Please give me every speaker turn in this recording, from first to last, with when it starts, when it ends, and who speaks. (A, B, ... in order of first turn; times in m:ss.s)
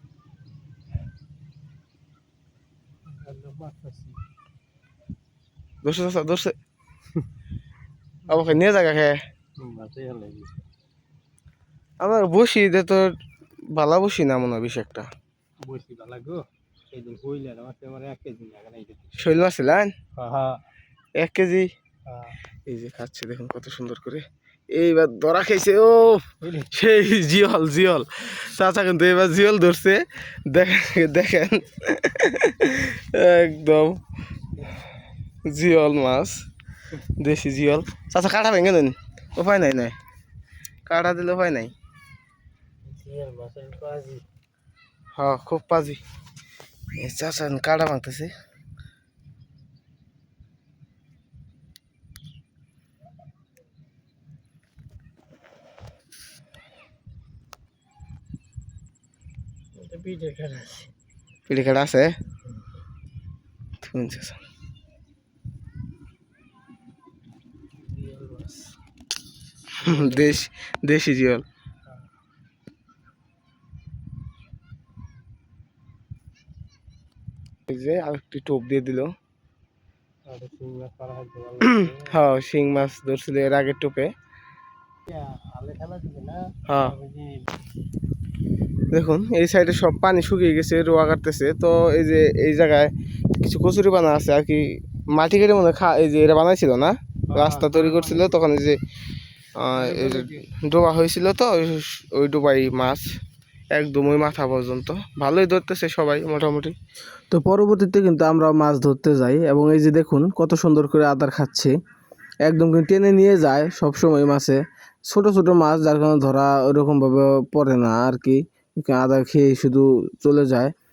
0:03.1-0:04.2 A
0:05.8-0:06.5 B
0:08.3-0:09.2 B
0:09.6-0:10.6 A
0:12.0-0:13.1 B
0:13.7-0:15.1 B
0:15.6-0:19.1 A
0:19.2-0:19.9 B
0:20.2-0:20.6 A
0:21.2-0:21.7 B
0:22.1-0:22.4 A
0:22.7-0:34.0 B
0:26.4-0:26.7 A
0:35.4-0:36.4 B
0:37.0-0:40.0 B
0:40.8-0:41.7 B
0:42.9-0:44.2 A
0:45.2-0:46.0 B
0:46.9-0:48.3 B
0:59.8-1:00.9 A
1:01.5-1:02.2 B
1:03.8-1:04.4 B
1:07.8-1:08.7 A
1:09.8-1:11.4 B
1:09.8-1:10.1 A
1:17.7-1:19.1 B
1:20.3-1:22.2 A
1:21.6-1:24.1 B
1:25.0-1:27.4 A
1:26.6-1:27.0 B
1:28.9-1:38.8 B
1:37.3-1:38.3 A
1:39.6-1:43.0 B
1:39.7-1:40.4 A
1:43.7-1:46.7 B
1:47.3-1:51.8 B
1:52.4-2:00.7 B